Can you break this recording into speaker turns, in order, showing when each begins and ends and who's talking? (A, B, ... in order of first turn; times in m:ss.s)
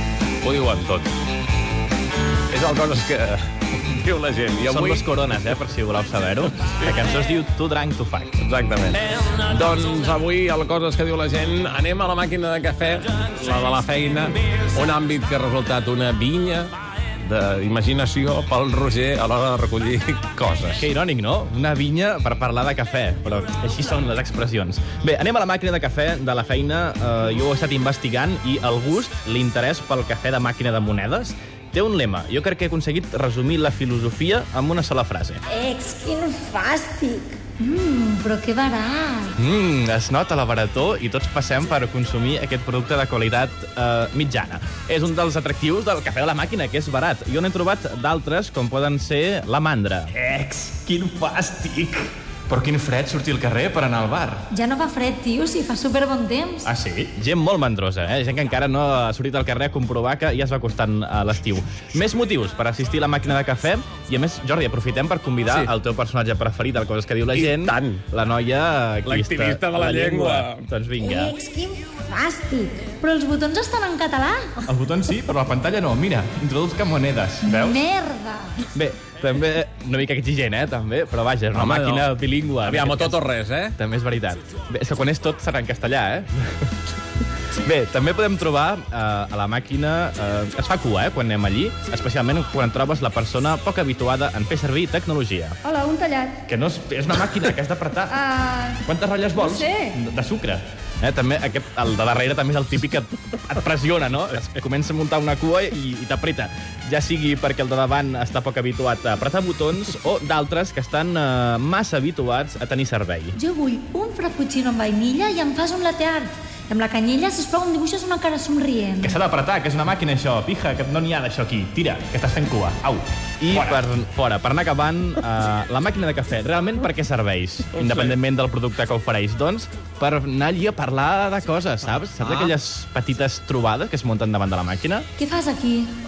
0:00.4-0:01.1 A
0:02.5-0:05.1 A
0:04.7-0:08.4 B
0:08.4-0:20.9 A
0:20.8-0:35.4 B
0:35.5-0:37.3 C
0:35.6-0:39.3 D
0:39.4-0:54.4 B
0:54.5-0:56.7 D
0:56.6-1:11.4 B
1:07.3-1:08.0 A
1:09.1-1:10.7 A
1:11.0-1:12.8 C
1:12.1-1:14.7 D
1:14.7-1:17.8 B
1:17.4-1:18.6 D
1:18.7-1:23.2 B
1:21.5-1:22.1 A
1:22.6-1:23.8 A
1:23.8-1:26.7 B
1:27.6-1:35.6 B
1:35.6-1:36.4 E
1:36.4-1:38.2 B
1:38.1-1:38.8 E
1:38.8-1:53.4 B
1:39.4-1:39.9 E
1:53.3-1:59.2 D
1:59.0-2:15.1 B
2:07.8-2:08.1 A
2:12.2-2:12.5 A
2:15.2-2:15.9 D